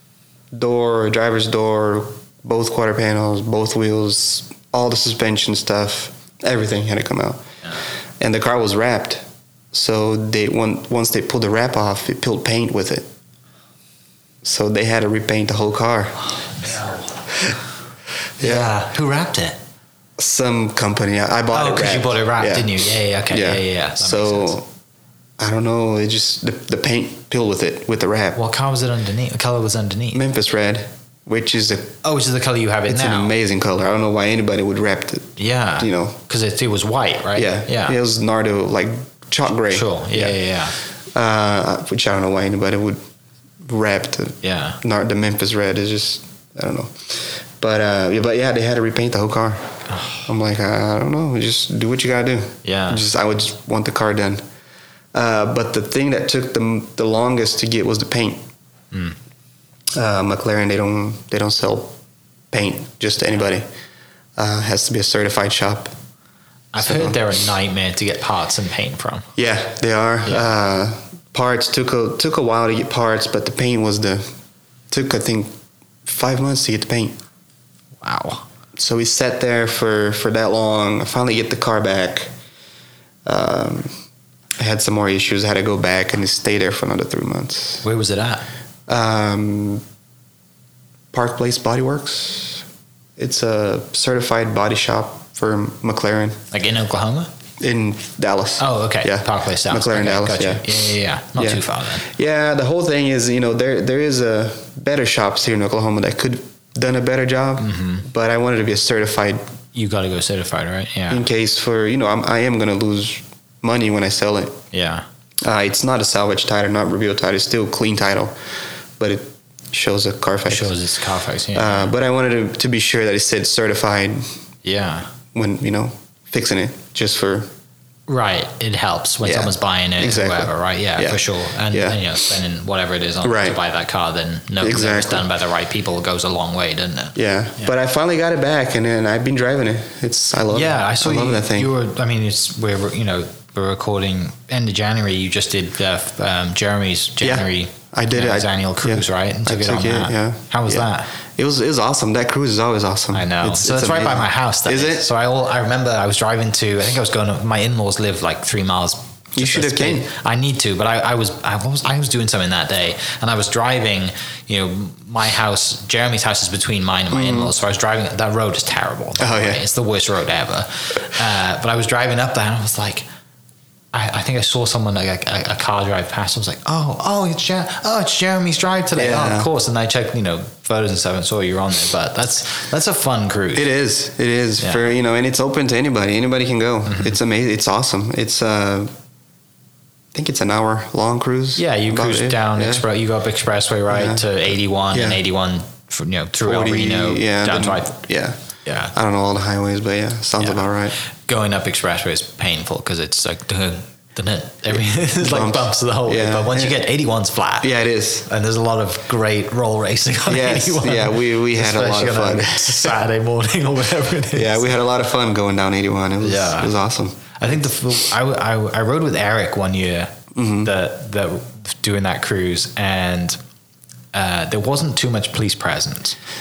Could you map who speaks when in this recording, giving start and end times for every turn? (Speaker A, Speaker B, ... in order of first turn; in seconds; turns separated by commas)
Speaker A: 0.5-7.4, Speaker A: 8.2-13.1, Speaker A: 14.4-16.3, Speaker A: 18.4-18.7, Speaker B: 18.4-19.6, Speaker A: 20.2-24.7, Speaker B: 21.5-24.6, Speaker A: 25.4-28.4, Speaker B: 28.4-30.2, Speaker A: 30.1-32.0, Speaker B: 32.0-33.3, Speaker A: 32.9-36.2, Speaker B: 35.4-38.0, Speaker A: 37.4-40.4, Speaker B: 39.7-40.8, Speaker A: 41.1-43.0, Speaker A: 43.6-49.7, Speaker B: 44.4-44.8, Speaker B: 49.9-50.3, Speaker A: 50.3-54.4, Speaker B: 52.6-53.0, Speaker A: 55.1-58.4, Speaker A: 60.0-62.0, Speaker A: 62.5-63.7, Speaker A: 64.4-65.9, Speaker B: 66.7-69.3, Speaker A: 66.8-67.2, Speaker A: 69.4-74.2, Speaker A: 74.9-75.5, Speaker A: 76.0-77.2, Speaker B: 78.0-78.4, Speaker A: 78.8-82.3, Speaker A: 83.3-83.9, Speaker A: 84.6-87.8, Speaker B: 87.8-88.5, Speaker A: 88.9-89.8, Speaker A: 91.1-92.7, Speaker A: 93.2-96.4, Speaker B: 96.5-97.3, Speaker A: 97.6-100.7, Speaker B: 98.6-102.1, Speaker A: 101.4-109.5, Speaker B: 107.6-108.1, Speaker B: 109.7-111.2, Speaker A: 111.1-114.6, Speaker B: 114.7-115.0, Speaker A: 115.5-118.3, Speaker A: 119.0-120.7, Speaker B: 120.5-122.0, Speaker A: 121.5-124.3, Speaker B: 124.6-125.1, Speaker A: 125.3-127.5, Speaker B: 128.1-137.7, Speaker A: 129.2-132.2, Speaker A: 133.2-133.6, Speaker A: 134.6-135.3, Speaker A: 137.2-141.7, Speaker B: 140.5-151.1, Speaker A: 147.2-155.1, Speaker B: 153.1-173.1, Speaker A: 159.4-160.1, Speaker A: 167.1-167.5, Speaker A: 169.2-169.6, Speaker B: 173.9-183.7, Speaker A: 178.9-179.5, Speaker A: 183.6-188.9, Speaker B: 184.6-184.9, Speaker B: 186.9-187.2, Speaker A: 190.1-192.8, Speaker B: 191.6-198.0, Speaker A: 193.9-194.4, Speaker A: 194.9-195.2, Speaker A: 196.4-198.4, Speaker B: 198.7-198.9, Speaker A: 198.9-201.0, Speaker B: 201.3-207.7, Speaker A: 205.2-206.8, Speaker A: 207.6-208.3, Speaker B: 208.3-214.7, Speaker A: 210.3-213.0, Speaker A: 214.3-217.3, Speaker B: 216.2-216.7, Speaker B: 217.4-223.4, Speaker A: 220.3-220.7, Speaker B: 224.1-226.2